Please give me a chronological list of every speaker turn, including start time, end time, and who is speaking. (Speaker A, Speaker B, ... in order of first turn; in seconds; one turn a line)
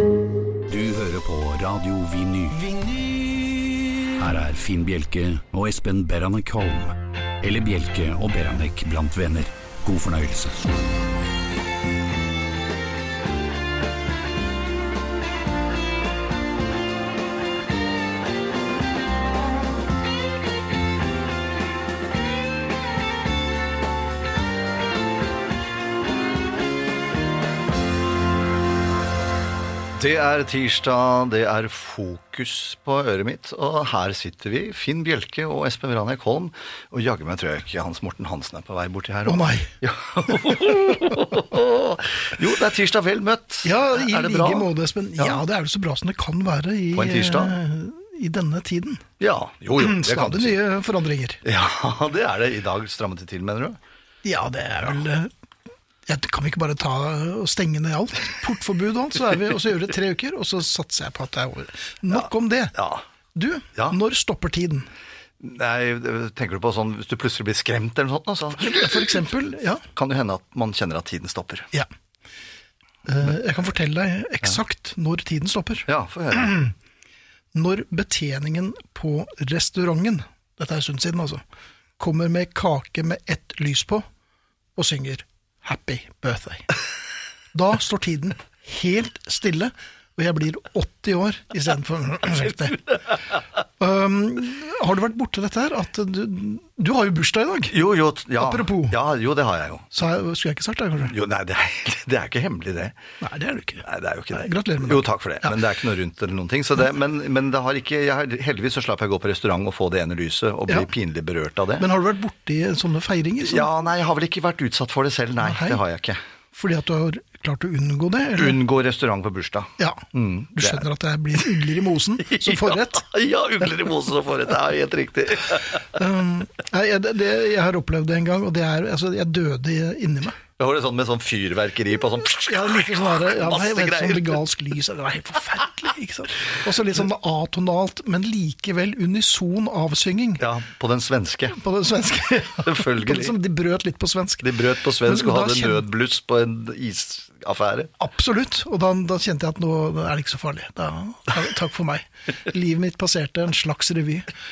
Speaker A: 0.7-2.6
Speaker A: 4.2-10.8
Speaker B: 29.9-45.4
Speaker C: 39.2-39.7
Speaker C: 43.6-49.0
Speaker B: 46.9-47.6
Speaker B: 49.2-50.6
Speaker C: 49.8-51.4
Speaker B: 51.4-53.8
Speaker C: 54.2-55.3
Speaker C: 56.1-62.7
Speaker B: 62.1-63.0
Speaker C: 63.3-64.9
Speaker B: 65.4-69.2
Speaker C: 68.5-69.8
Speaker B: 69.8-71.7
Speaker C: 73.0-75.9
Speaker B: 75.9-76.6
Speaker C: 76.4-76.7
Speaker C: 77.5-81.4
Speaker C: 82.0-84.0
Speaker C: 84.8-86.7
Speaker C: 87.5-92.9
Speaker C: 93.8-97.8
Speaker B: 97.7-99.9
Speaker C: 98.4-99.0
Speaker C: 99.9-101.2
Speaker B: 101.0-103.0
Speaker C: 103.2-105.6
Speaker B: 103.8-111.9
Speaker C: 111.8-113.7
Speaker B: 113.4-116.2
Speaker C: 115.4-115.8
Speaker C: 116.5-118.6
Speaker B: 118.3-120.8
Speaker C: 119.8-123.1
Speaker B: 122.2-125.8
Speaker C: 125.9-130.4
Speaker B: 130.6-134.4
Speaker C: 132.2-140.5
Speaker B: 140.4-141.6
Speaker C: 141.5-145.8
Speaker B: 142.6-143.3
Speaker B: 144.4-147.9
Speaker C: 148.0-154.3